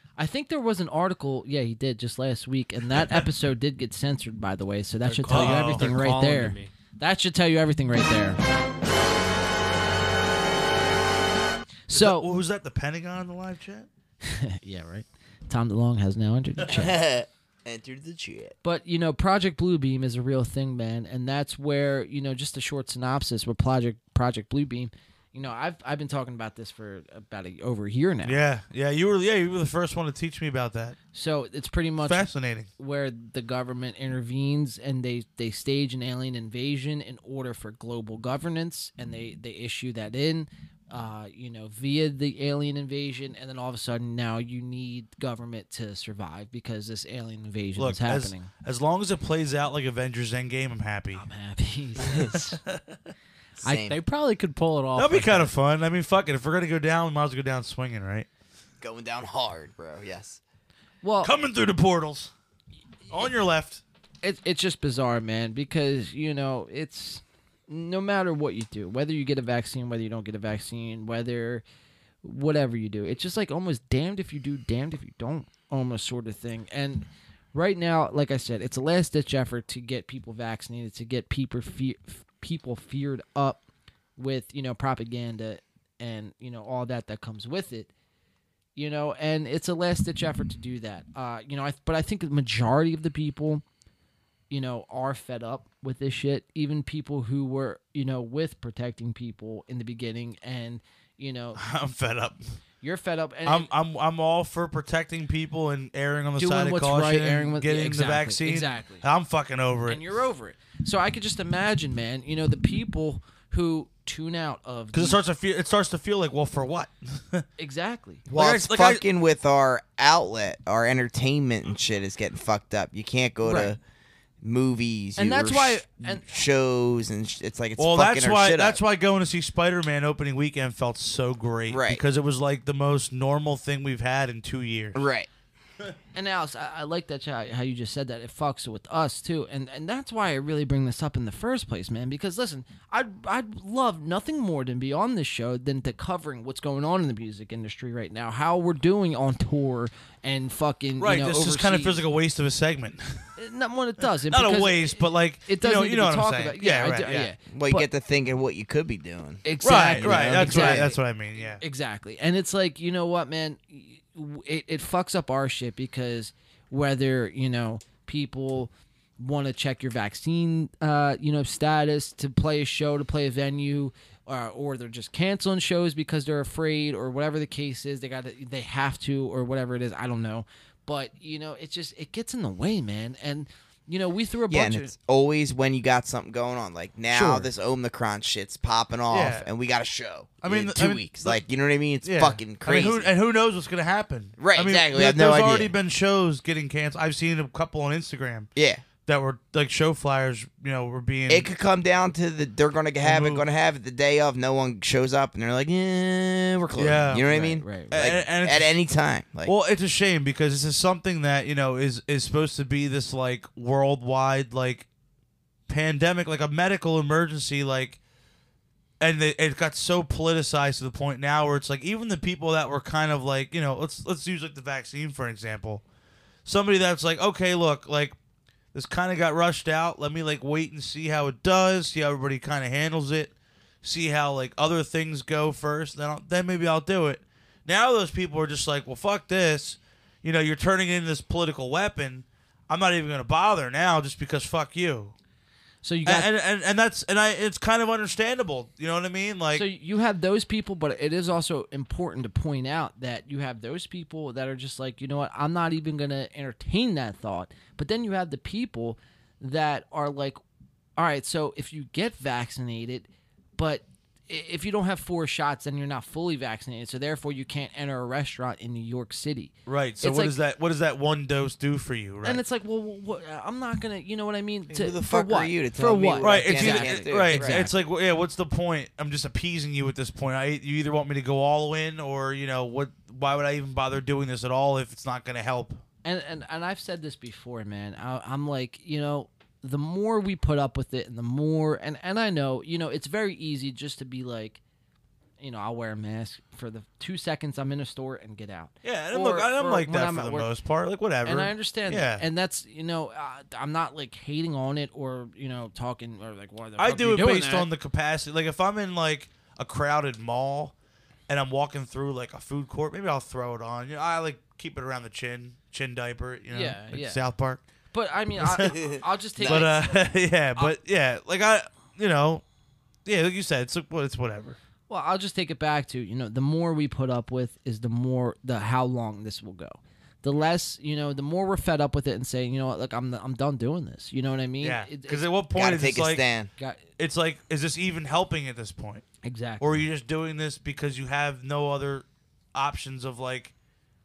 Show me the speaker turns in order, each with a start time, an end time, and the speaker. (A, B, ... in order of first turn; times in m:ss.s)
0:00.2-0:08.4 A
0:05.1-0:06.7 B
0:05.3-0:05.9 C
0:11.9-0:12.3 A
0:11.9-0:13.9 C
0:14.2-0:17.0 A
0:16.7-0:18.6 D
0:18.6-0:28.4 A
0:28.2-0:31.0 C
0:31.1-0:48.5 A
0:32.0-0:32.7 C
0:47.8-0:51.3 C
0:51.1-0:52.6 A
0:52.2-0:53.0 C
0:53.6-0:54.0 D
0:53.9-0:55.5 B
0:55.0-0:58.3 C
0:58.8-1:00.4 D
1:01.0-1:01.3 A
1:01.2-1:02.3 C
1:03.1-1:03.8 C
1:04.2-1:11.6 A
1:12.2-1:23.6 A
1:24.2-1:27.9 A
1:28.8-1:33.6 A
1:34.5-1:41.6 A
1:41.6-1:42.4 C
1:42.8-1:43.7 A
1:43.5-1:50.2 C
1:46.4-1:49.0 A
1:49.9-1:55.2 A
1:54.9-1:57.5 C
1:57.6-1:58.3 A
1:58.3-2:03.8 D
1:58.3-1:59.0 C
2:03.4-2:03.8 A
2:04.4-2:08.8 D
2:05.2-2:06.2 A
2:07.8-2:15.0 C
2:11.7-2:12.0 D
2:15.0-2:15.3 D
2:16.1-2:32.0 A
2:31.0-2:33.3 C
2:33.4-2:37.9 A
2:34.3-2:37.3 C
2:37.5-2:41.0 D
2:39.4-3:04.9 A
2:39.6-2:41.6 C
3:04.5-3:13.1 D
3:07.1-3:07.5 C
3:09.1-3:09.5 C
3:10.4-3:11.4 C
3:12.0-3:18.5 C
3:14.4-3:15.7 D
3:18.6-3:18.8 D
3:19.0-3:21.5 C
3:21.3-3:29.5 D
3:23.0-3:23.4 C
3:26.8-3:27.3 C
3:27.2-3:27.9 A
3:27.9-3:28.7 C
3:29.4-3:34.9 C
3:35.7-3:38.0 C
3:39.0-3:45.8 C
3:46.5-3:48.2 C
3:48.7-4:05.1 C
4:05.8-4:06.3 A
4:06.1-4:09.6 C
4:09.5-4:20.4 A
4:21.0-4:30.4 A
4:29.7-4:32.4 C
4:32.2-4:37.8 A
4:34.7-4:37.7 D
4:36.2-4:45.8 C
4:46.0-4:54.6 A
4:55.4-5:00.5 A
4:58.8-5:02.2 C
5:01.2-5:07.7 A
5:06.8-5:10.7 C
5:11.3-5:17.6 C
5:16.5-5:17.2 A
5:17.9-5:19.8 A
5:18.4-5:18.8 C
5:18.5-5:19.7 D
5:19.5-5:22.4 C
5:23.1-5:24.6 C
5:24.9-5:35.3 A
5:34.6-5:36.2 C
5:35.5-5:36.5 D
5:37.0-5:39.1 C
5:39.2-5:39.8 A
5:39.6-5:43.5 C